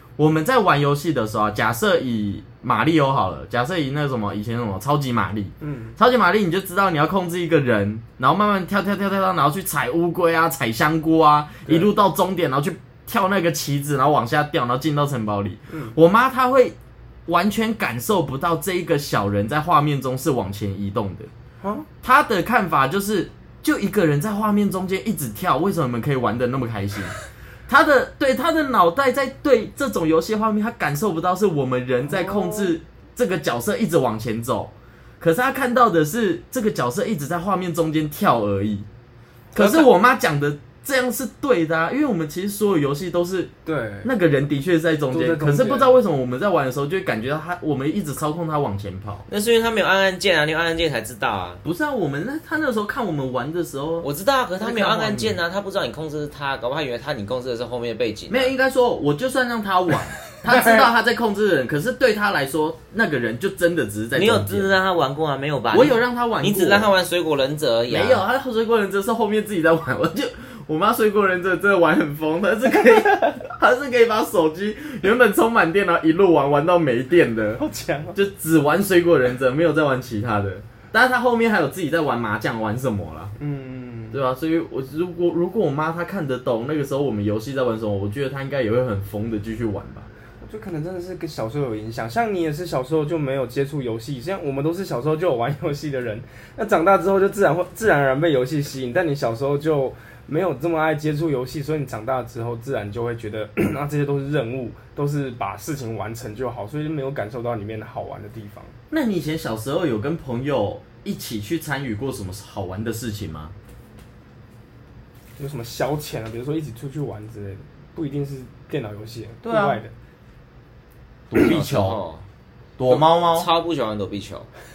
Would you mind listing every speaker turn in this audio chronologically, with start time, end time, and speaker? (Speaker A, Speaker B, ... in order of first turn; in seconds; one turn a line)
Speaker A: 0.2-16.8
Speaker B: 5.6-6.0
Speaker B: 15.7-16.0
Speaker A: 17.3-21.3
Speaker B: 21.6-21.9
Speaker A: 22.0-27.1
Speaker A: 27.7-38.9
Speaker B: 32.1-32.8
Speaker A: 39.5-43.5
Speaker B: 39.6-39.8
Speaker B: 43.6-44.1
Speaker A: 44.0-49.3
Speaker B: 45.1-45.9
Speaker C: 49.3-51.6
Speaker A: 51.6-54.1
Speaker C: 54.0-58.5
Speaker A: 54.6-55.4
Speaker A: 58.3-64.7
Speaker C: 64.2-68.2
Speaker A: 65.7-66.9
Speaker A: 67.9-77.6
Speaker B: 77.6-78.2
Speaker A: 78.2-83.3
Speaker B: 83.4-84.2
Speaker A: 84.1-90.1
Speaker B: 90.4-108.7
Speaker A: 108.9-113.5
Speaker B: 115.4-119.9
Speaker A: 119.4-119.8
Speaker A: 121.3-122.0
Speaker C: 121.4-122.2
Speaker A: 122.8-123.5
Speaker C: 122.9-124.5